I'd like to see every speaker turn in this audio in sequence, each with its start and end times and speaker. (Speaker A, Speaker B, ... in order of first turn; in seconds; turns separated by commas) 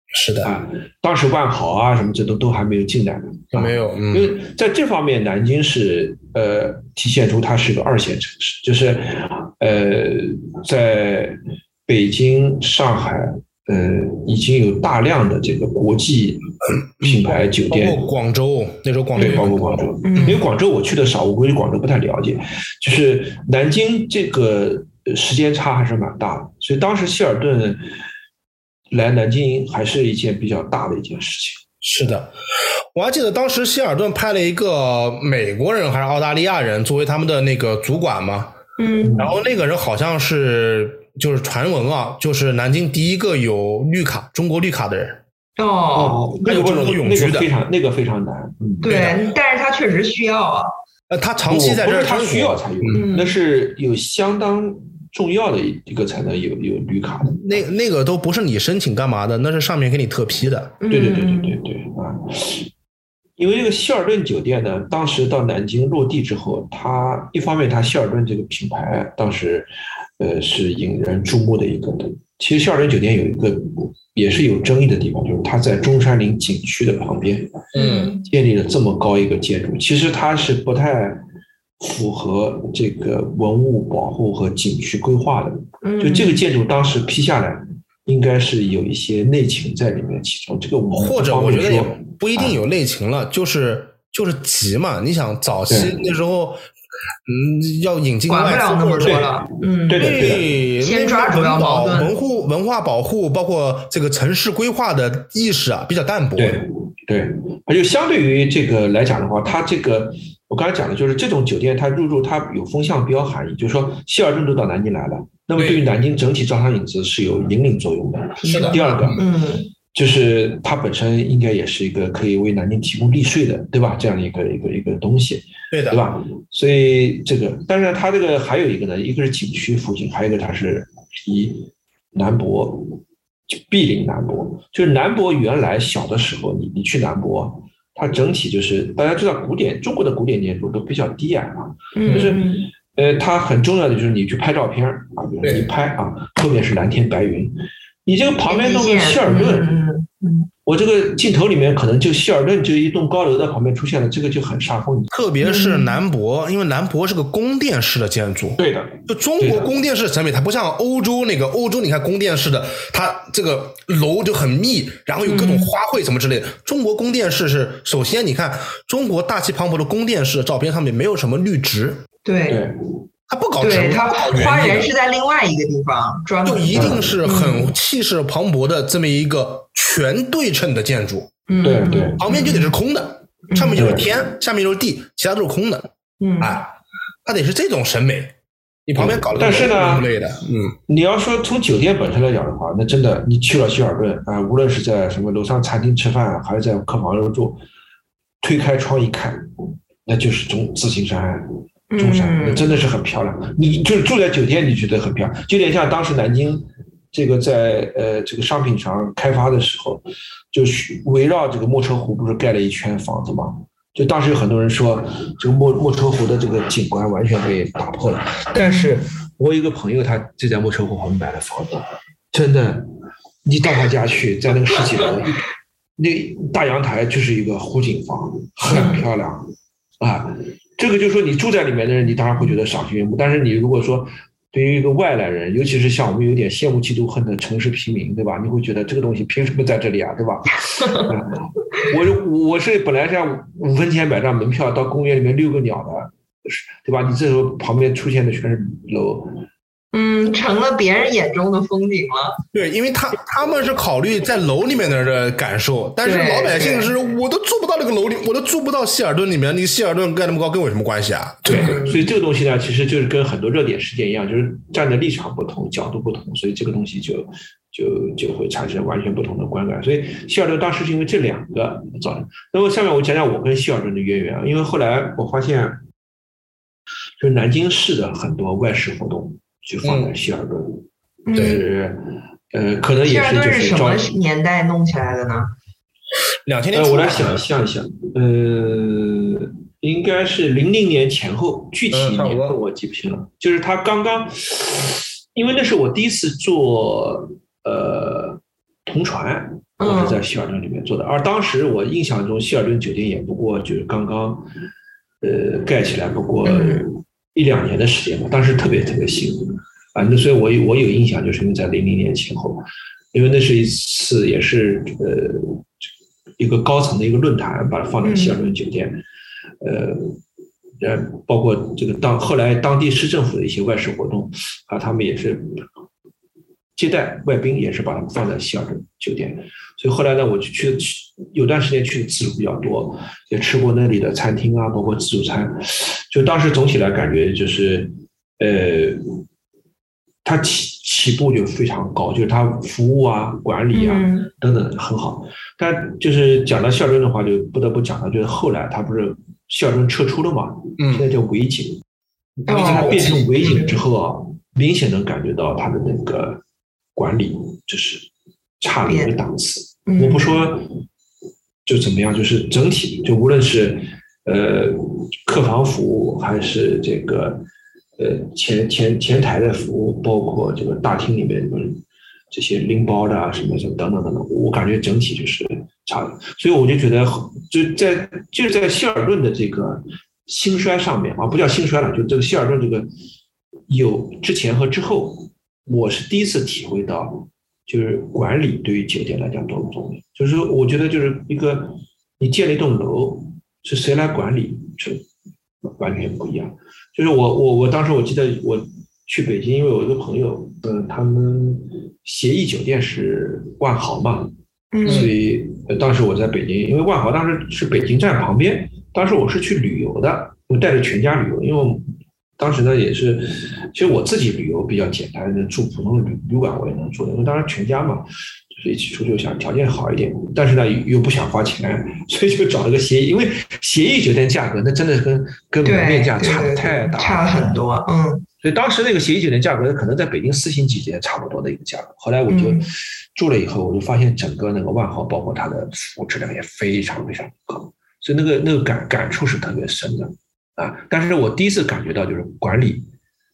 Speaker A: 0.1-0.5, Speaker B: 0.4-16.5, Speaker A: 3.5-4.4, Speaker B: 17.0-18.0, Speaker A: 17.0-19.9, Speaker B: 19.2-27.8, Speaker C: 20.0-20.4, Speaker B: 28.9-31.6, Speaker A: 31.8-32.3, Speaker A: 32.9-38.5, Speaker C: 38.8-39.2, Speaker B: 39.0-39.3, Speaker A: 39.2-45.2, Speaker C: 45.6-46.2, Speaker B: 45.9-49.0, Speaker A: 46.4-47.5, Speaker C: 48.8-50.7, Speaker A: 48.9-49.1, Speaker A: 51.1-53.0, Speaker B: 51.5-57.6, Speaker C: 52.9-53.3, Speaker A: 57.4-60.8, Speaker C: 60.8-61.6, Speaker B: 60.9-62.7, Speaker B: 63.4-77.6, Speaker C: 77.7-78.3, Speaker A: 77.7-78.1, Speaker B: 78.2-81.2, Speaker B: 81.8-92.6, Speaker C: 85.8-86.4, Speaker A: 90.9-96.6, Speaker B: 95.7-96.0, Speaker A: 97.2-99.2, Speaker C: 98.3-100.1, Speaker B: 99.0-99.3, Speaker B: 99.8-100.5, Speaker A: 100.0-106.6, Speaker C: 100.8-102.1, Speaker B: 106.4-119.2, Speaker A: 115.5-115.8, Speaker C: 118.4-119.7, Speaker A: 118.5-119.2, Speaker B: 119.9-149.7, Speaker A: 125.7-126.0, Speaker C: 141.9-142.7, Speaker A: 145.4-145.7, Speaker C: 148.5-150.5, Speaker B: 150.6-155.1, Speaker A: 155.1-172.0, Speaker C: 155.4-156.0, Speaker B: 158.6-159.7, Speaker C: 165.2-165.7, Speaker C: 172.2-172.6, Speaker B: 172.5-172.7, Speaker A: 173.3-174.9, Speaker C: 173.6-177.7, Speaker A: 176.4-181.3, Speaker B: 176.7-177.2, Speaker C: 181.5-182.7, Speaker B: 181.6-182.2, Speaker A: 182.2-185.9, Speaker C: 183.5-183.8, Speaker B: 183.7-184.1, Speaker C: 186.2-186.6, Speaker A: 186.4-186.7, Speaker A: 187.2-188.3, Speaker A: 188.8-190.8, Speaker B: 188.9-190.1, Speaker B: 190.9-197.6, Speaker B: 198.4-199.5, Speaker B: 200.0-222.9, Speaker C: 201.9-202.8, Speaker C: 218.6-218.9, Speaker B: 223.4-225.4, Speaker B: 226.0-229.5, Speaker C: 228.7-229.1, Speaker B: 230.0-249.4, Speaker C: 240.7-241.1, Speaker C: 249.9-252.4, Speaker A: 252.5-261.8, Speaker C: 256.0-256.9, Speaker C: 261.4-262.1, Speaker B: 261.4-275.8, Speaker B: 277.2-284.1, Speaker A: 279.8-280.1, Speaker C: 281.2-281.6, Speaker C: 283.0-285.5, Speaker A: 286.4-287.4, Speaker B: 286.7-304.5, Speaker A: 291.9-292.6, Speaker C: 299.8-300.2, Speaker B: 305.2-315.6, Speaker C: 306.4-306.9, Speaker B: 316.4-319.0, Speaker C: 318.0-318.4, Speaker B: 319.6-320.2, Speaker B: 320.8-325.6, Speaker B: 326.8-339.1, Speaker B: 340.2-351.8, Speaker C: 343.7-344.3, Speaker A: 350.8-351.0, Speaker C: 352.5-353.8, Speaker A: 352.5-353.2, Speaker B: 352.5-356.4, Speaker B: 356.9-358.1, Speaker B: 358.6-360.6, Speaker C: 358.8-359.1, Speaker C: 359.9-360.4, Speaker B: 361.6-367.4, Speaker B: 368.0-382.9, Speaker B: 383.7-395.0, Speaker B: 395.6-404.3, Speaker C: 404.7-405.1, Speaker B: 404.8-411.8, Speaker A: 404.8-405.1, Speaker B: 412.4-427.6, Speaker C: 425.6-428.2, Speaker B: 428.4-442.9, Speaker C: 432.3-432.7